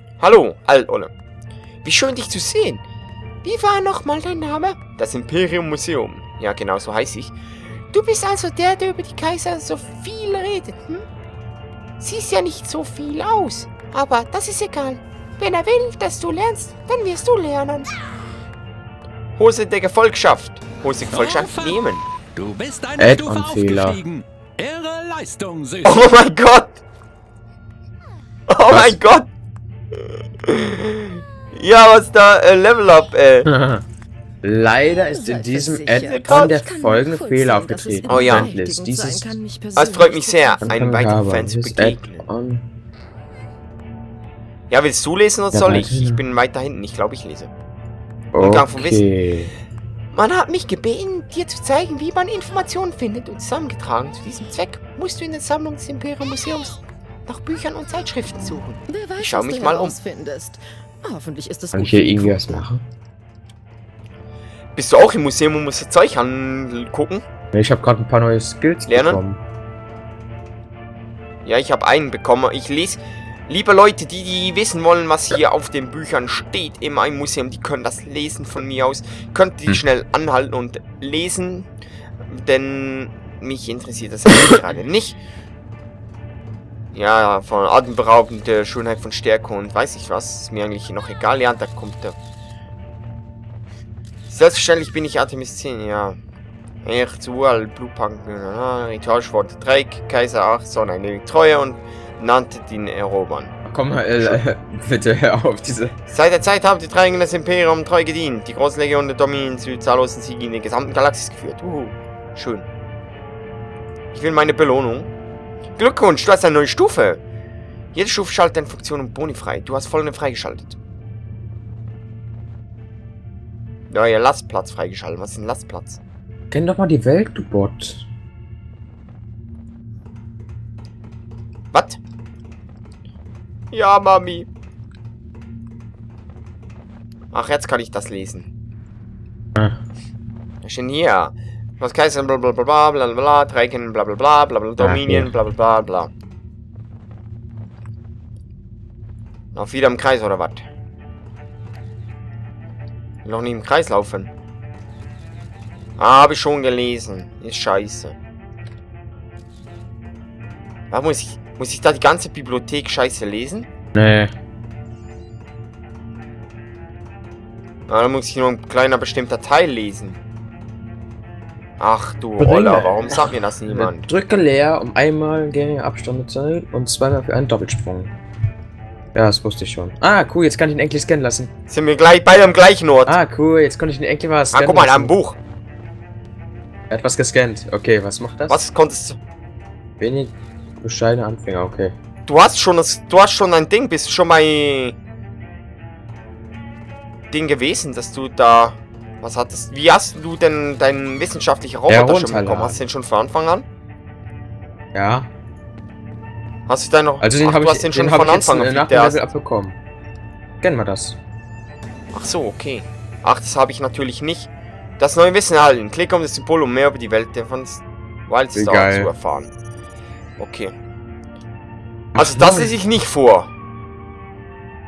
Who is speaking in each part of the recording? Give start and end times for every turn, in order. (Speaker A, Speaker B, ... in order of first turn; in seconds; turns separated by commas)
Speaker A: 0.2-1.1, Speaker A: 1.8-2.8, Speaker A: 3.4-7.3, Speaker A: 7.9-11.1, Speaker A: 12.0-17.9, Speaker A: 19.4-22.1, Speaker B: 21.1-26.1, Speaker C: 23.0-24.0, Speaker A: 25.8-26.8, Speaker A: 28.5-29.3, Speaker C: 28.7-29.0, Speaker A: 30.4-33.5, Speaker C: 33.5-33.9, Speaker C: 34.4-39.4, Speaker D: 35.1-40.7, Speaker A: 36.1-36.6, Speaker A: 38.1-38.5, Speaker A: 39.8-42.3, Speaker C: 40.6-42.7, Speaker A: 44.7-47.5, Speaker C: 45.5-46.2, Speaker C: 48.3-49.5, Speaker A: 48.4-49.0, Speaker A: 50.1-60.0, Speaker D: 58.9-62.6, Speaker C: 61.7-62.8, Speaker A: 64.8-67.2, Speaker C: 67.5-69.4, Speaker A: 68.9-69.2, Speaker A: 71.5-81.7, Speaker A: 82.2-85.2, Speaker A: 86.9-92.2, Speaker A: 94.3-96.2, Speaker A: 96.8-103.5, Speaker C: 103.7-106.0, Speaker A: 106.1-112.7, Speaker A: 114.1-115.1, Speaker A: 115.8-117.2, Speaker A: 117.9-120.8, Speaker A: 123.9-126.0, Speaker C: 126.5-128.1, Speaker A: 131.7-132.0, Speaker A: 133.7-134.5, Speaker A: 137.3-138.5, Speaker A: 140.6-146.1, Speaker C: 144.8-145.3, Speaker A: 149.6-150.6, Speaker A: 153.2-154.3, Speaker A: 156.0-158.2, Speaker A: 160.9-163.7, Speaker C: 163.9-164.3, Speaker A: 167.9-170.2, Speaker A: 171.8-174.1, Speaker C: 172.4-178.1, Speaker C: 179.1-181.5, Speaker A: 181.7-183.2, Speaker C: 183.1-185.2, Speaker A: 184.5-185.4, Speaker C: 186.9-188.6, Speaker A: 188.5-189.2, Speaker C: 190.0-191.9, Speaker A: 192.3-195.0, Speaker A: 197.3-203.7, Speaker C: 201.9-202.8, Speaker C: 204.9-205.3, Speaker A: 206.7-209.3, Speaker C: 207.2-209.8, Speaker C: 210.6-211.2, Speaker A: 212.1-219.5, Speaker C: 218.5-219.1, Speaker A: 220.4-220.8, Speaker C: 222.1-222.7, Speaker A: 222.2-223.5